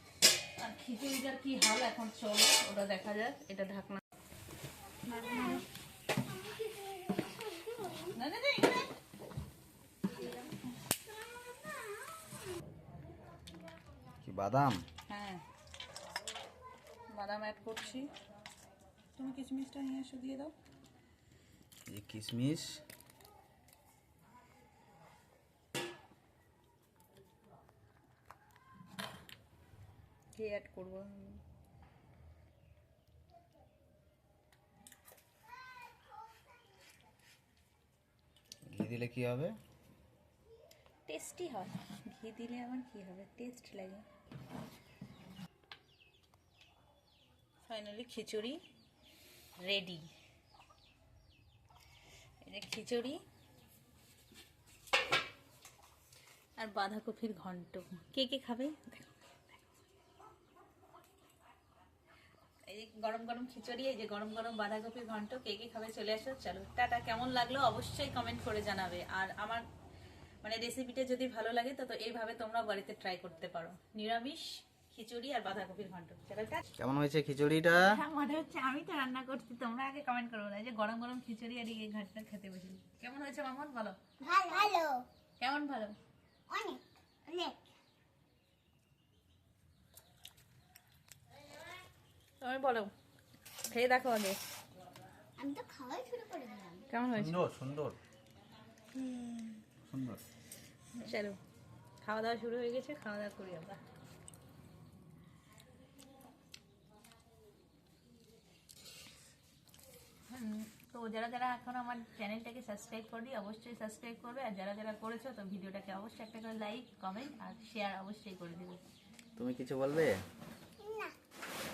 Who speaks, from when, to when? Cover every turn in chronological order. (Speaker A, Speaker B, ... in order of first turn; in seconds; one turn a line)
Speaker A: 0.6-4.0
Speaker A: 5.0-5.6
Speaker B: 6.3-8.2
Speaker A: 8.1-8.9
Speaker C: 14.2-14.8
Speaker A: 15.1-15.4
Speaker A: 17.1-18.1
Speaker A: 19.2-20.5
Speaker C: 21.9-22.8
Speaker A: 30.3-31.4
Speaker C: 38.7-39.6
Speaker A: 41.1-44.0
Speaker A: 47.6-48.6
Speaker A: 49.6-50.1
Speaker A: 52.5-53.2
Speaker A: 56.6-59.3
Speaker A: 62.7-69.6
Speaker A: 70.4-76.6
Speaker C: 76.8-78.0
Speaker A: 77.7-84.0
Speaker B: 84.2-85.0
Speaker A: 85.4-86.0
Speaker B: 86.5-87.6
Speaker A: 92.4-92.9
Speaker A: 93.7-94.4
Speaker B: 95.4-96.8
Speaker A: 96.9-97.4
Speaker C: 97.1-98.0
Speaker B: 99.1-99.5
Speaker C: 99.8-100.2
Speaker A: 101.0-101.4
Speaker A: 102.0-103.8
Speaker A: 110.3-118.8
Speaker C: 119.4-120.2
Speaker B: 120.8-121.1